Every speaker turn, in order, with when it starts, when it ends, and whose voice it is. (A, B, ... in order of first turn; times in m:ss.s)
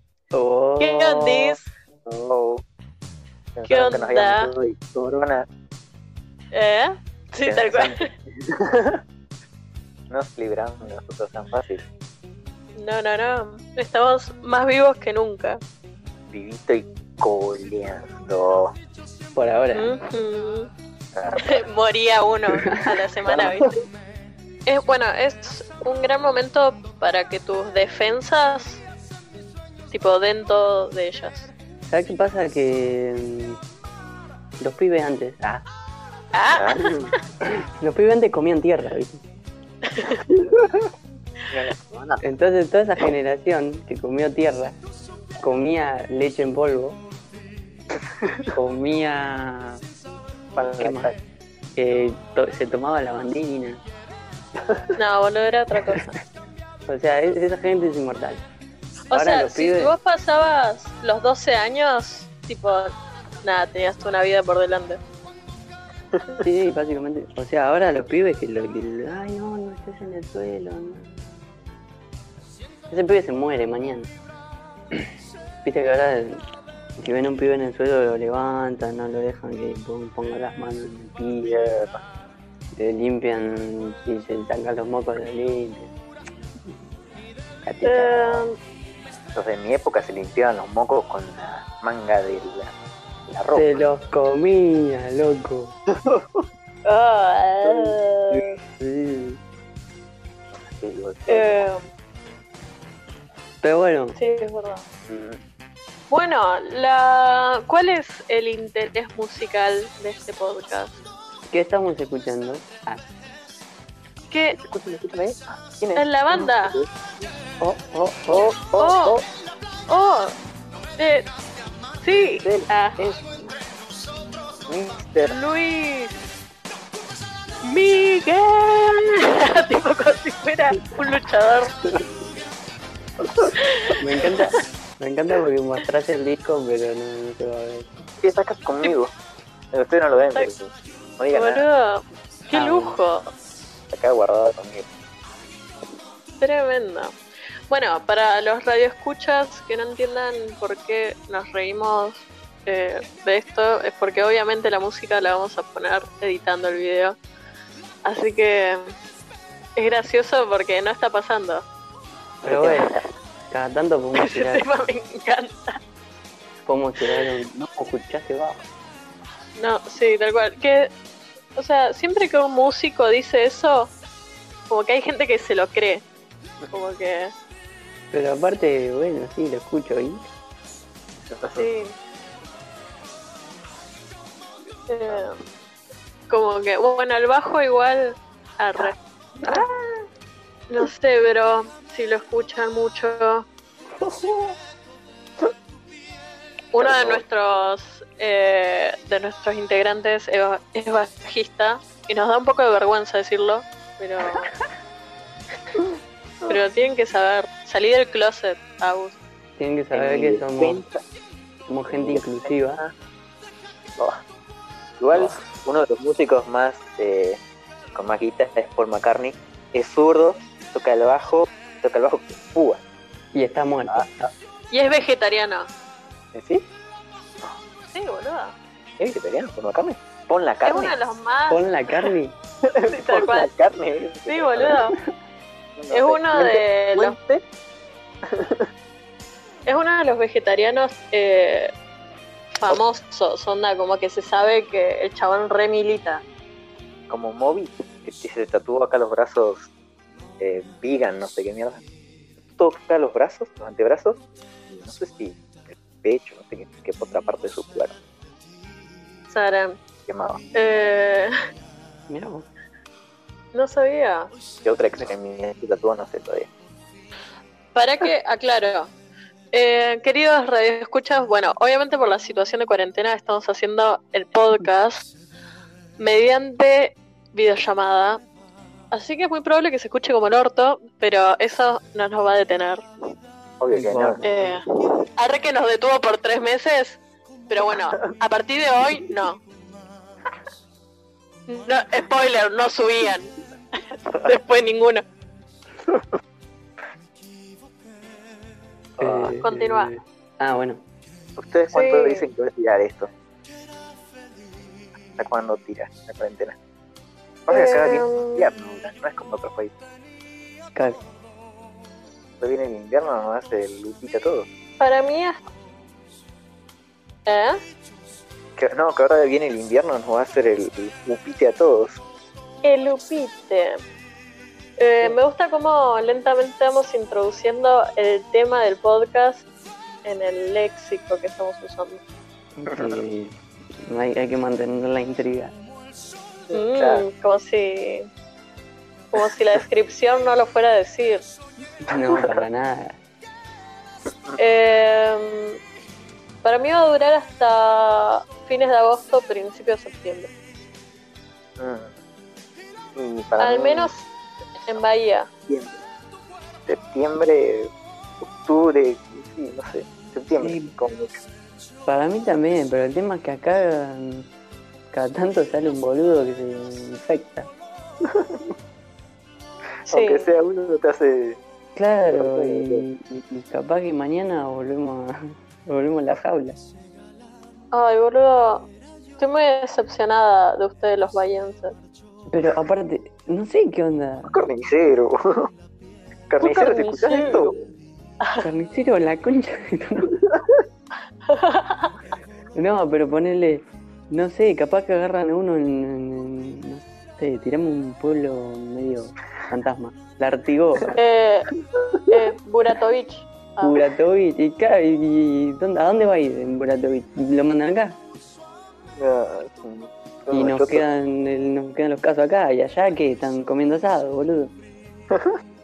0:00.3-0:01.6 A
0:00.8-0:01.7 B
0:02.1-0:02.6 C
0:03.6-0:05.4 C
0:03.7-0:04.5 B
0:06.5-0:08.1 B
0:07.4-0:09.0 C
0:10.1-0:11.8 C
0:12.8-0:15.6 B
0:16.3-0:18.8 C
0:19.4-0:19.9 A
0:19.7-0:20.7 B
0:21.1-0:21.6 C
0:21.3-0:23.7 B
0:23.3-0:23.7 C
0:24.7-0:28.8 B
0:29.9-0:31.5 B
0:31.9-0:33.6 A
0:34.6-0:35.6 A
0:36.3-0:37.2 B
0:36.6-0:37.1 C
0:37.5-0:39.2 A
0:39.9-0:40.2 B
0:40.3-0:40.9 C
0:41.5-0:42.2 C
0:42.2-0:44.8 A
0:45.4-0:47.0 A
0:48.5-0:49.8 A
0:50.6-0:51.2 C
0:50.6-0:51.1 A
0:51.8-0:53.8 A
0:55.0-0:56.2 B
0:56.9-0:58.4 A
0:59.1-1:05.0 B
0:59.1-1:00.0 A
1:06.1-1:06.4 C
1:06.4-1:11.1 A
1:12.9-1:14.1 A
1:15.6-1:16.4 A
1:17.0-1:21.5 A
1:21.4-1:22.0 C
1:22.7-1:25.9 A
1:27.6-1:28.5 A
1:27.8-1:28.5 B
1:29.4-1:32.7 C
1:33.3-1:33.8 C
1:33.5-1:35.7 A
1:35.9-1:36.4 C
1:36.9-1:38.6 B
1:37.7-1:37.9 C
1:38.3-1:39.4 A
1:40.5-1:41.7 C
1:41.3-1:41.8 B
1:43.6-1:44.2 A
1:44.2-1:44.8 B
1:46.1-1:51.0 B
1:51.5-1:53.0 A
1:54.3-1:54.6 B
1:54.6-1:56.9 C
1:56.0-1:56.8 B
1:57.6-1:58.5 A
1:58.3-1:59.2 C
1:58.8-1:59.2 B
1:59.9-2:00.3 B
2:01.0-2:01.3 B
2:02.0-2:03.0 B
2:02.4-2:03.5 C
2:04.7-2:05.4 C
2:05.3-2:06.2 B
2:07.6-2:11.8 B
2:13.2-2:13.5 C
2:13.5-2:14.0 B
2:14.0-2:18.1 A
2:18.2-2:19.1 C
2:19.7-2:21.6 C
2:21.3-2:23.3 B
2:22.5-2:23.0 A
2:23.9-2:24.9 C
2:26.4-2:27.2 B
2:27.7-2:37.2 B
2:38.0-2:38.9 B
2:39.8-2:41.6 B
2:42.4-2:43.0 A
2:42.4-2:43.0 C
2:43.5-2:44.6 A
2:44.1-2:45.8 B
2:46.6-2:48.6 A
2:49.6-2:50.9 B
2:51.6-2:53.9 B
2:54.7-2:56.0 B
2:56.7-2:57.3 B
2:58.1-3:00.3 A
3:01.3-3:01.7 C
3:01.6-3:02.0 B
3:04.9-3:05.4 B
3:06.3-3:09.6 B
3:09.4-3:10.1 C
3:10.7-3:13.5 B
3:14.0-3:14.6 C
3:16.7-3:24.5 B
3:16.8-3:17.2 C
3:26.5-3:29.2 B
3:29.6-3:30.8 A
3:29.9-3:31.0 C
3:31.7-3:32.8 A
3:31.9-3:32.9 C
3:35.0-3:37.4 C
3:38.0-3:42.8 C
3:43.3-3:44.3 A
3:43.9-3:44.2 C
3:44.7-3:45.7 B
3:46.3-3:46.6 C
3:47.9-3:48.6 B
3:49.0-3:51.0 C
3:50.6-3:51.6 B
3:51.5-3:52.3 A
3:52.6-3:54.8 C
3:52.8-3:53.5 B
3:54.3-3:55.0 B
3:55.8-3:57.4 C
3:55.9-3:57.2 B
3:58.3-3:58.7 C
3:59.7-4:01.7 B
4:02.6-4:06.2 B
4:07.1-4:09.7 C
4:10.4-4:11.8 C
4:12.6-4:17.9 C
4:19.3-4:19.8 B
4:20.1-4:20.4 C
4:20.5-4:21.3 B
4:22.1-4:22.5 A
4:23.5-4:24.3 B
4:24.6-4:26.5 C
4:27.8-4:28.9 B
4:29.5-4:35.1 B
4:36.0-4:38.2 B
4:38.9-4:42.8 B
4:43.6-4:44.2 C
4:43.7-4:44.6 A
4:44.2-4:44.6 B
4:45.2-4:49.4 B
4:51.5-4:55.0 B
4:59.0-4:59.4 C
4:59.0-5:00.8 A
4:59.4-4:59.9 B
5:01.4-5:03.1 C
5:01.7-5:02.3 B
5:05.2-5:06.6 C
5:07.5-5:09.8 C
5:07.5-5:08.5 B
5:12.4-5:14.5 C
5:14.8-5:15.4 B
5:17.3-5:17.6 B
5:18.6-5:22.0 C
5:22.6-5:23.8 B
5:24.8-5:29.4 B
5:30.0-5:32.0 B
5:32.6-5:35.5 A
5:32.7-5:33.0 C
5:36.5-5:37.0 C
5:36.5-5:38.1 B
5:39.1-5:41.3 B
5:41.8-5:43.0 A
5:42.0-5:42.4 C
5:44.4-5:45.6 B
5:46.4-5:50.3 B
5:51.6-5:51.9 C
5:53.0-5:53.9 C
5:53.4-5:54.1 B
5:54.6-5:55.3 B
5:55.5-5:55.8 C
5:56.7-5:57.7 C
5:58.2-6:01.2 C
6:00.4-6:00.8 A
6:01.9-6:04.3 A
6:04.9-6:07.5 A
6:08.0-6:08.5 C
6:09.9-6:11.4 C
6:09.9-6:10.3 B
6:11.8-6:16.6 A
6:12.1-6:12.8 C
6:17.7-6:21.7 B
6:22.3-6:24.3 A
6:24.3-6:25.5 C
6:26.3-6:27.6 C
6:26.4-6:27.5 B
6:28.4-6:30.2 A
6:30.3-6:30.6 C
6:31.3-6:32.0 B
6:32.6-6:41.0 A
6:40.9-6:41.5 B
6:41.7-6:42.1 C
6:42.1-6:43.8 B
6:43.6-6:48.0 A
6:49.0-6:50.8 C
6:50.3-6:54.5 A
6:55.1-6:55.4 C